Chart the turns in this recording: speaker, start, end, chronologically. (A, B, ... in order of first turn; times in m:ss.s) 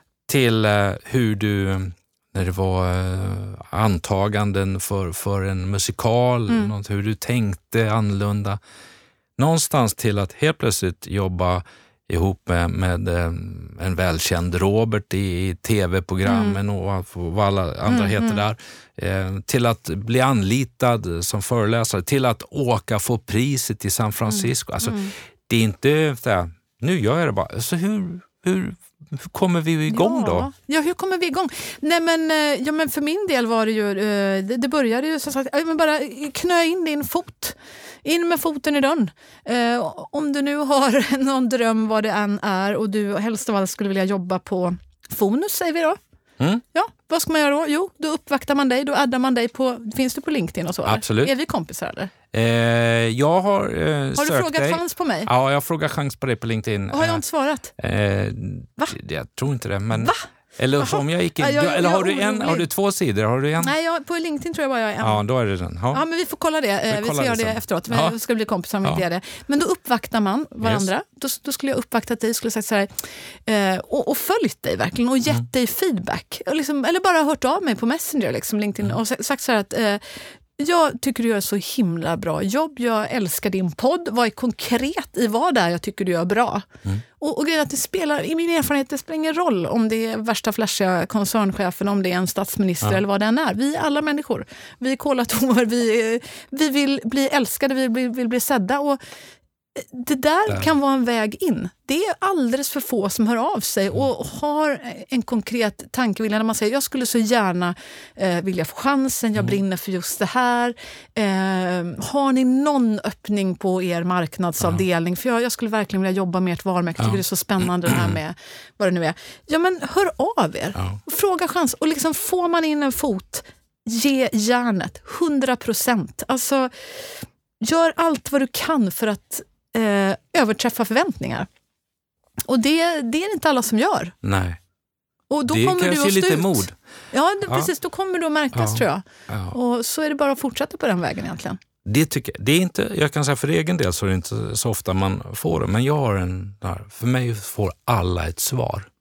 0:00.3-0:08.6 A
0:06.5-0:06.7 B
0:09.4-0:30.5 A
0:16.2-0:16.6 B
0:17.8-0:18.4 B
0:24.3-0:25.1 B
0:29.9-0:46.0 B
0:46.7-0:52.1 B
0:50.8-0:51.3 A
0:52.3-0:57.2 A
0:54.2-0:55.3 B
0:56.9-0:57.7 B
0:57.8-1:03.7 A
1:00.0-1:00.2 B
1:00.8-1:02.6 B
1:03.6-1:05.2 B
1:05.0-1:06.0 A
1:05.9-1:26.7 B
1:06.9-1:08.2 A
1:10.6-1:10.9 A
1:27.2-1:39.0 B
1:39.7-2:11.5 B
1:57.8-1:58.2 A
2:12.4-2:14.1 B
2:14.2-2:14.6 A
2:15.3-2:21.6 B
2:15.4-2:16.7 A
2:18.5-2:19.5 A
2:21.8-2:28.9 A